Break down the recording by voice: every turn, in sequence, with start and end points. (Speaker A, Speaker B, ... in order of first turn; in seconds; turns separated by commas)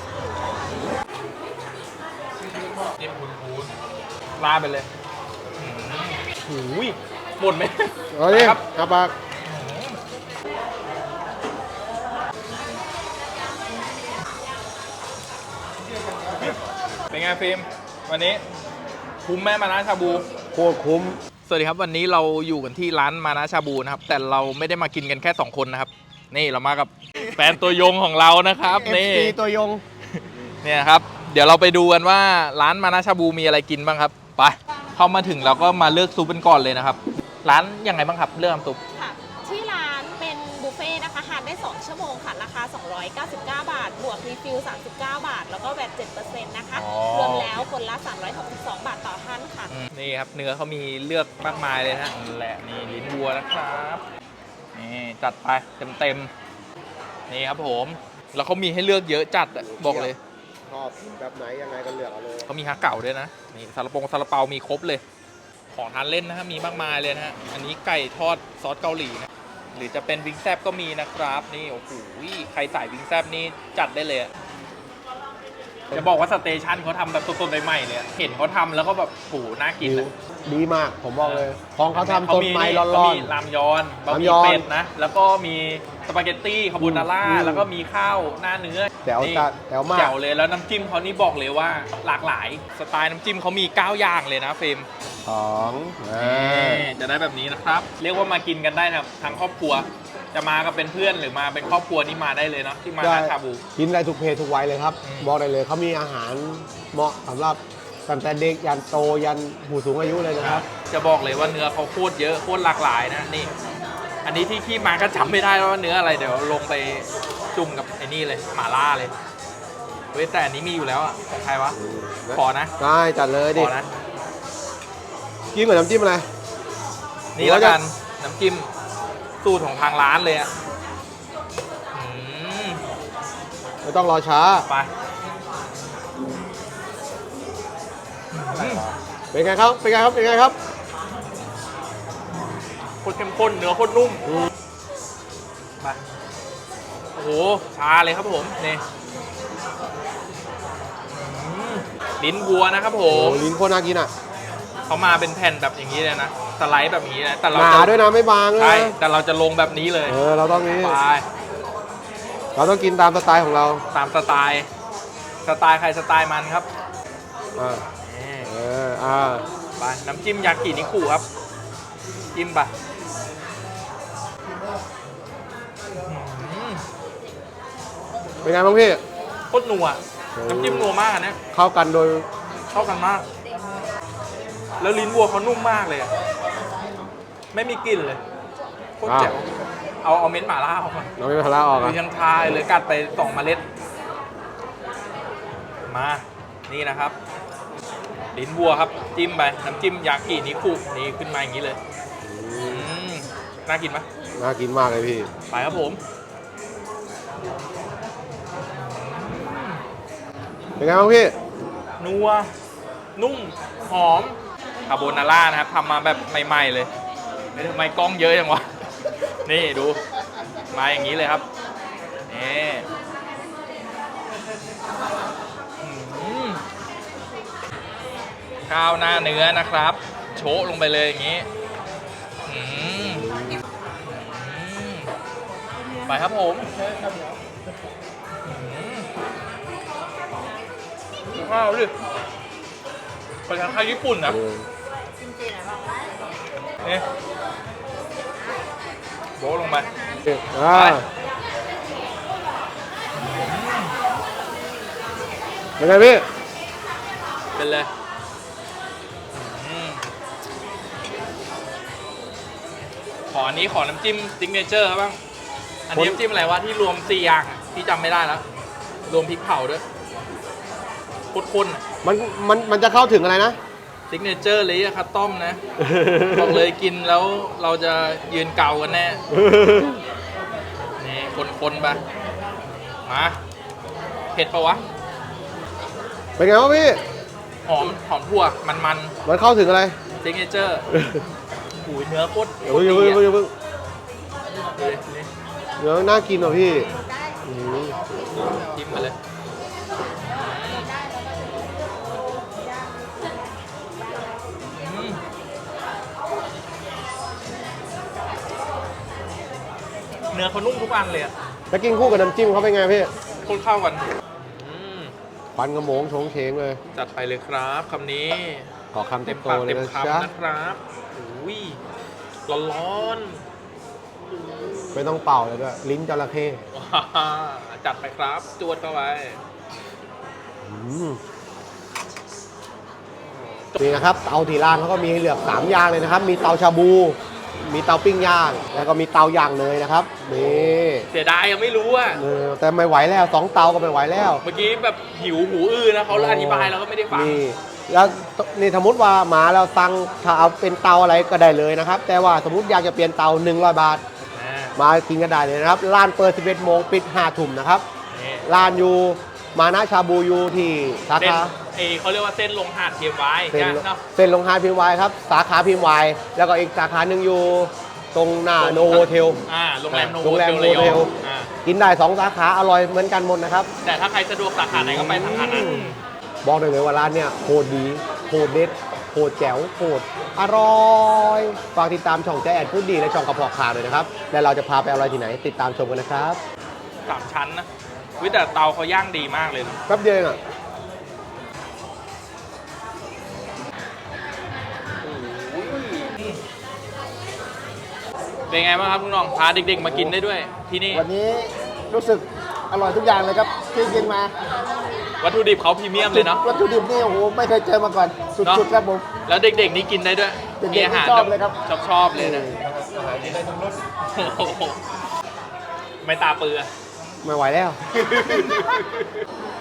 Speaker A: 3.0-3.7, Speaker A: 4.4-4.9, Speaker A: 5.6-8.6, Speaker B: 8.1-9.1, Speaker A: 9.4-10.0, Speaker A: 17.1-18.4, Speaker A: 19.2-20.3, Speaker B: 20.5-21.2, Speaker A: 21.4-29.4, Speaker B: 28.7-29.8, Speaker A: 30.2-38.8, Speaker C: 39.0-49.7, Speaker A: 46.7-47.7, Speaker A: 49.7-54.0, Speaker A: 54.7-56.3, Speaker A: 57.3-60.2, Speaker B: 59.5-60.1, Speaker B: 60.7-62.5, Speaker A: 62.5-65.0, Speaker A: 65.7-74.3, Speaker A: 75.9-80.1, Speaker B: 79.8-83.3, Speaker A: 81.2-94.9, Speaker B: 84.1-84.7, Speaker B: 86.8-87.7, Speaker B: 89.0-90.2, Speaker B: 95.2-96.9, Speaker A: 96.2-103.6, Speaker B: 103.0-110.6, Speaker A: 105.0-105.3, Speaker A: 110.4-113.5, Speaker A: 114.2-119.1, Speaker A: 120.1-121.8, Speaker B: 121.8-123.7, Speaker A: 122.3-122.7, Speaker A: 123.5-123.9, Speaker B: 125.5-126.3, Speaker A: 127.3-128.7, Speaker B: 127.4-127.8, Speaker A: 129.4-130.5, Speaker A: 131.9-132.8, Speaker B: 133.8-134.7, Speaker A: 138.3-138.9, Speaker B: 138.6-140.6, Speaker A: 143.0-144.3, Speaker A: 147.2-148.8, Speaker A: 151.1-153.5, Speaker B: 153.1-154.1, Speaker A: 154.9-158.0, Speaker B: 157.5-159.0, Speaker A: 158.6-160.2, Speaker B: 160.1-161.0, Speaker A: 160.8-161.3, Speaker B: 162.6-163.8, Speaker A: 163.9-164.7, Speaker A: 165.4-166.7, Speaker B: 167.6-167.8, Speaker A: 168.0-168.5, Speaker B: 168.4-169.4, Speaker A: 169.8-171.2, Speaker A: 172.3-172.7, Speaker A: 176.0-176.8, Speaker B: 178.4-179.0, Speaker A: 179.5-181.4, Speaker B: 180.3-180.9, Speaker B: 181.5-182.3, Speaker A: 182.7-183.3, Speaker A: 184.8-186.1, Speaker A: 187.5-188.2, Speaker A: 189.0-191.1, Speaker B: 189.0-189.3, Speaker B: 191.2-192.0, Speaker A: 191.8-193.6, Speaker A: 195.9-197.2, Speaker A: 198.3-201.8, Speaker B: 202.2-202.9, Speaker A: 202.6-204.1, Speaker B: 204.3-205.3, Speaker A: 205.5-206.0, Speaker A: 208.7-209.8, Speaker B: 210.8-211.3, Speaker A: 212.0-212.5, Speaker A: 213.2-216.9, Speaker A: 217.5-218.8, Speaker A: 219.4-220.0, Speaker A: 220.7-221.5, Speaker A: 222.3-222.9, Speaker A: 225.8-226.6, Speaker A: 228.7-231.5, Speaker A: 232.5-233.3, Speaker B: 233.2-233.6, Speaker A: 234.1-235.1, Speaker A: 236.1-236.7, Speaker A: 238.4-239.1, Speaker A: 241.3-241.9, Speaker A: 243.5-244.4, Speaker B: 244.3-244.7, Speaker A: 249.4-249.9, Speaker B: 250.2-251.1, Speaker A: 250.7-251.0, Speaker A: 253.2-254.0, Speaker B: 255.8-256.2, Speaker A: 257.5-257.9, Speaker A: 259.3-260.0, Speaker A: 263.3-265.2, Speaker A: 265.9-268.4, Speaker B: 265.9-266.2, Speaker A: 269.1-269.8, Speaker A: 271.3-271.8, Speaker B: 272.0-273.6, Speaker A: 274.1-275.6, Speaker B: 275.8-276.6, Speaker A: 276.3-279.2, Speaker B: 279.3-280.0, Speaker A: 281.0-282.0, Speaker A: 283.1-283.4, Speaker A: 284.3-284.8, Speaker B: 286.4-287.0, Speaker A: 287.6-289.1, Speaker B: 289.2-289.9, Speaker A: 290.2-290.8, Speaker B: 290.9-291.2, Speaker A: 291.8-293.3, Speaker B: 292.6-293.5, Speaker A: 294.8-295.3, Speaker B: 295.8-296.9, Speaker A: 296.6-297.0, Speaker B: 297.4-298.0, Speaker A: 298.5-299.2, Speaker A: 300.2-300.9, Speaker A: 304.7-305.2, Speaker A: 310.3-311.3, Speaker B: 311.7-313.1, Speaker A: 313.4-315.1, Speaker B: 315.6-316.8, Speaker A: 316.9-318.7, Speaker B: 318.9-320.3, Speaker A: 319.2-321.8, Speaker A: 322.5-323.4, Speaker B: 324.9-326.6, Speaker A: 326.7-329.4, Speaker B: 330.6-331.2, Speaker A: 333.6-333.9, Speaker B: 333.8-341.1, Speaker A: 340.3-342.2, Speaker B: 342.1-344.4, Speaker A: 344.4-347.4, Speaker B: 346.1-354.0, Speaker A: 354.3-354.8, Speaker B: 354.8-357.9, Speaker A: 358.1-358.4, Speaker B: 358.4-361.5, Speaker A: 361.2-364.0, Speaker B: 363.5-371.1, Speaker A: 368.6-371.5, Speaker B: 371.6-373.7, Speaker A: 373.8-376.0, Speaker B: 374.7-386.4, Speaker A: 387.1-387.7, Speaker A: 388.2-389.8, Speaker B: 389.9-390.4, Speaker A: 395.1-396.4, Speaker A: 398.5-401.1, Speaker D: 400.9-404.3, Speaker A: 405.2-406.4, Speaker D: 406.0-409.0, Speaker A: 408.4-408.7, Speaker A: 409.2-412.5, Speaker D: 410.6-411.5, Speaker B: 412.3-413.8, Speaker A: 413.1-413.4, Speaker A: 414.0-414.8, Speaker A: 416.0-416.7, Speaker B: 417.2-417.8, Speaker A: 417.9-419.1